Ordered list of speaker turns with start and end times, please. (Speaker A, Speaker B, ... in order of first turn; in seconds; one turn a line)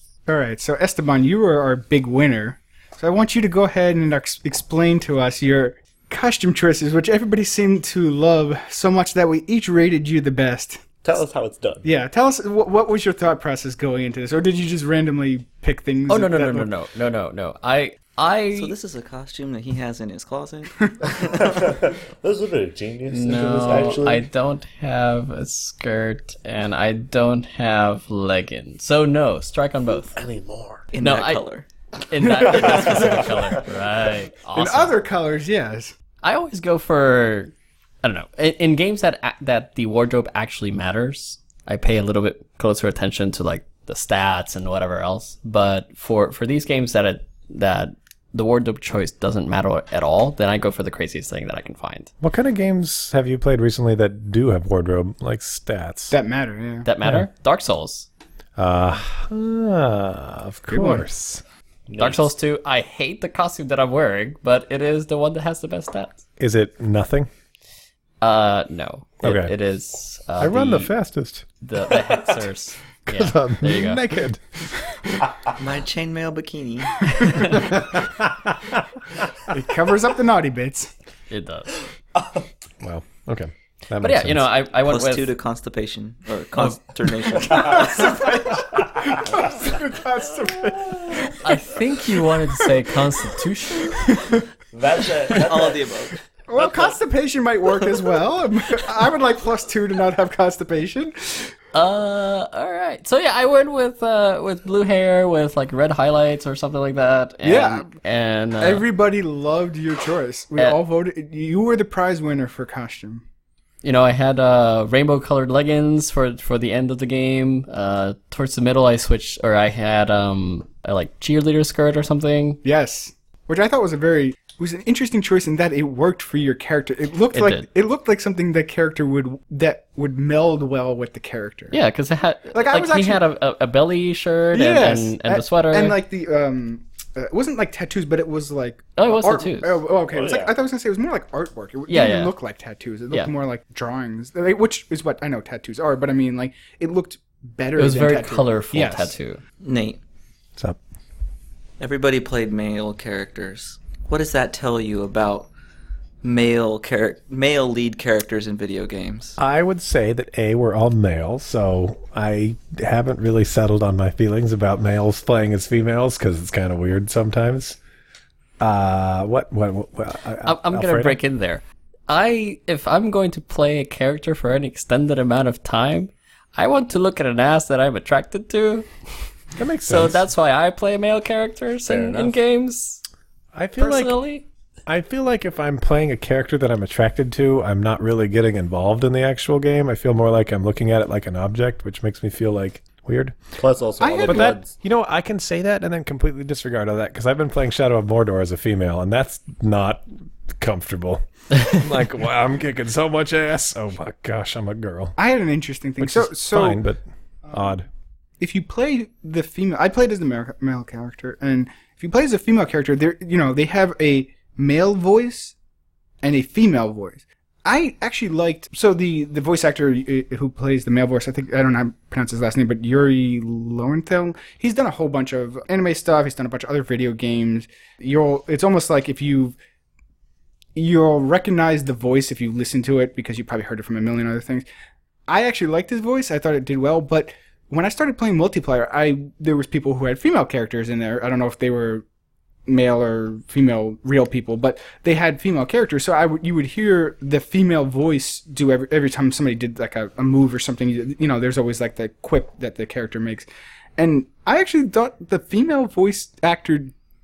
Speaker A: 0.3-10.8
Speaker B: 11.0-11.8
Speaker A: 11.8-16.7
Speaker C: 16.1-18.7
Speaker D: 18.5-21.6
Speaker B: 21.2-24.3
Speaker C: 23.1-30.2
Speaker B: 30.1-30.9
Speaker D: 30.9-31.6
Speaker C: 31.0-31.4
Speaker C: 32.1-35.0
Speaker A: 32.2-33.6
Speaker B: 32.5-33.5
Speaker A: 34.5-35.9
Speaker C: 36.2-52.1
Speaker E: 52.2-56.1
Speaker A: 56.1-56.9
Speaker C: 56.8-58.1
Speaker E: 57.0-57.2
Speaker E: 58.6-61.4
Speaker A: 60.7-61.0
Speaker B: 61.9-62.3
Speaker C: 62.0-66.2
Speaker E: 66.4-67.3
Speaker C: 68.2-70.9
Speaker E: 69.2-69.5
Speaker E: 70.4-71.5
Speaker C: 71.6-74.0
Speaker E: 73.1-74.9
Speaker D: 75.5-77.4
Speaker C: 77.2-77.6
Speaker E: 77.6-78.8
Speaker A: 79.5-80.9
Speaker C: 81.3-81.7
Speaker E: 82.8-84.5
Speaker C: 84.0-85.3
Speaker D: 84.8-88.4
Speaker B: 87.4-87.9
Speaker A: 87.5-91.4
Speaker C: 91.4-94.2
Speaker A: 93.9-94.4
Speaker B: 94.7-95.8
Speaker D: 95.3-96.2
Speaker A: 96.5-101.5
Speaker B: 96.6-96.9
Speaker C: 101.7-108.8
Speaker A: 107.4-107.9
Speaker A: 108.6-113.2
Speaker C: 113.8-122.6
Speaker A: 122.6-131.8
Speaker C: 127.3-127.7
Speaker C: 131.7-136.0
Speaker A: 132.5-133.2
Speaker A: 134.5-149.1
Speaker C: 138.9-139.8
Speaker B: 140.1-140.5
Speaker C: 141.9-142.3
Speaker C: 147.8-149.4
Speaker D: 149.6-150.0
Speaker D: 151.8-155.5
Speaker D: 156.2-159.4
Speaker E: 159.4-167.8
Speaker E: 168.6-171.2
Speaker C: 170.4-178.9
Speaker E: 179.6-180.2
Speaker C: 179.9-183.0
Speaker B: 181.9-182.4
Speaker E: 183.5-184.2
Speaker C: 183.8-184.4
Speaker E: 184.8-193.4
Speaker B: 193.6-194.7
Speaker A: 194.0-194.6
Speaker E: 194.2-205.2
Speaker A: 205.2-206.8
Speaker E: 206.0-207.8
Speaker A: 207.5-207.8
Speaker A: 208.4-215.5
Speaker A: 216.2-229.6
Speaker A: 230.8-234.7
Speaker A: 235.3-242.0
Speaker A: 242.7-256.9